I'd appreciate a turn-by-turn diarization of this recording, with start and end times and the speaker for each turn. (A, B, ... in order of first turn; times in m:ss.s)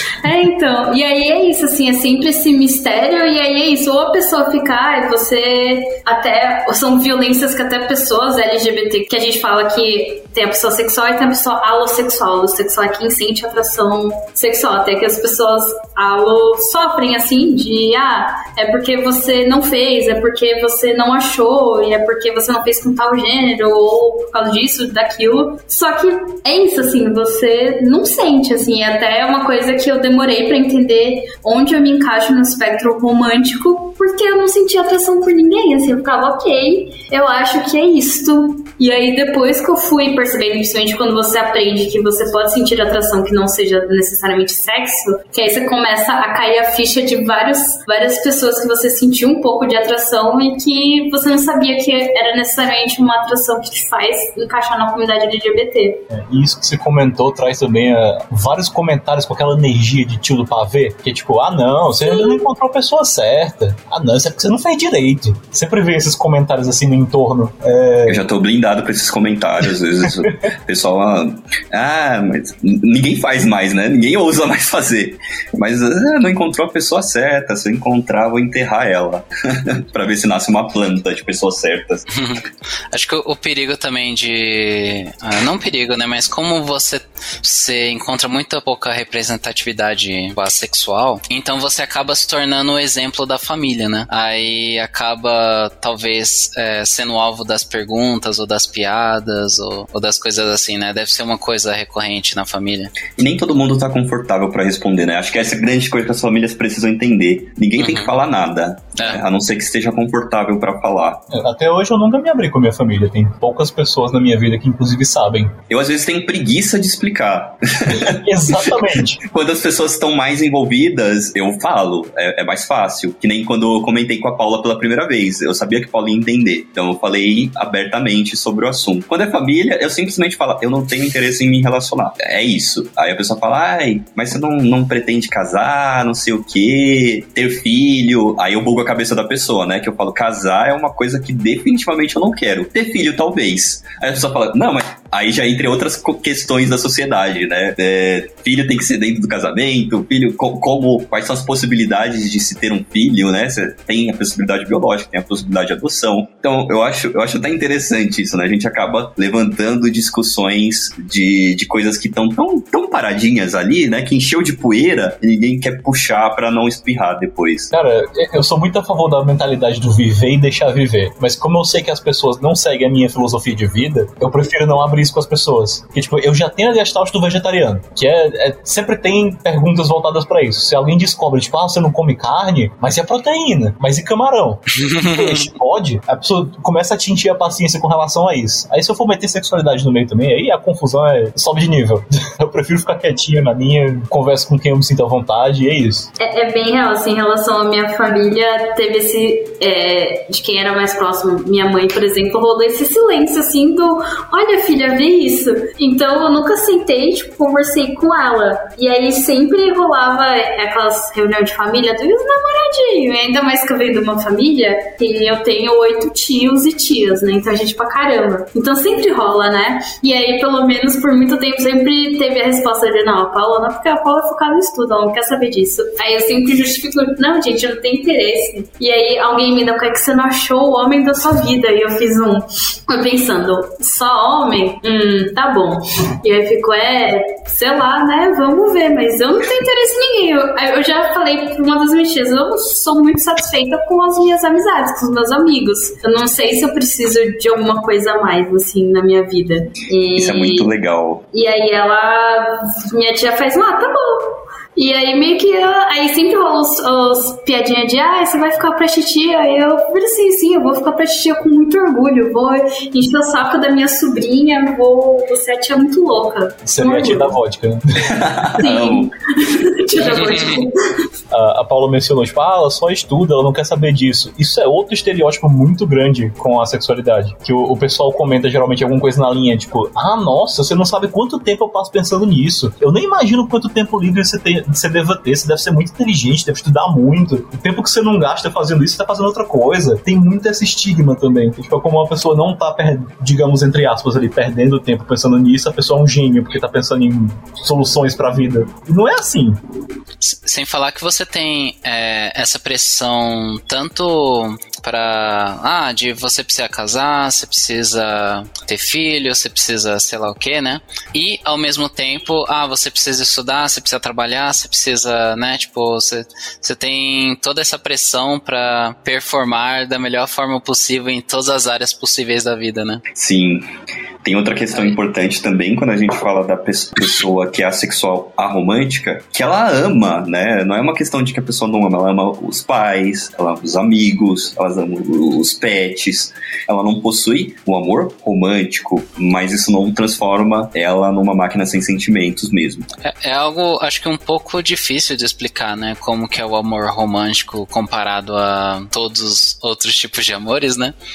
0:00.2-0:56.0 A
0:56.1-1:08.2 B
1:02.0-1:02.4 A
1:08.1-1:22.0 C
1:22.1-1:43.0 D
1:43.2-1:51.2 C
1:47.8-1:48.1 D
1:51.3-1:55.6 B
1:55.7-1:58.7 C
1:57.8-1:59.2 B
1:59.2-2:47.7 C
2:47.7-3:16.1 B
3:04.8-3:05.4 D
3:16.2-4:10.7 A
4:10.2-4:11.2 C
4:11.3-4:27.3 A
4:26.6-4:28.1 B
4:28.0-4:29.1 C
4:28.6-4:30.8 A
4:30.0-4:30.5 D
4:31.3-4:59.6 B
5:00.2-5:23.0 D
5:23.1-5:23.6 C
5:24.2-5:42.9 C
5:43.0-5:50.9 D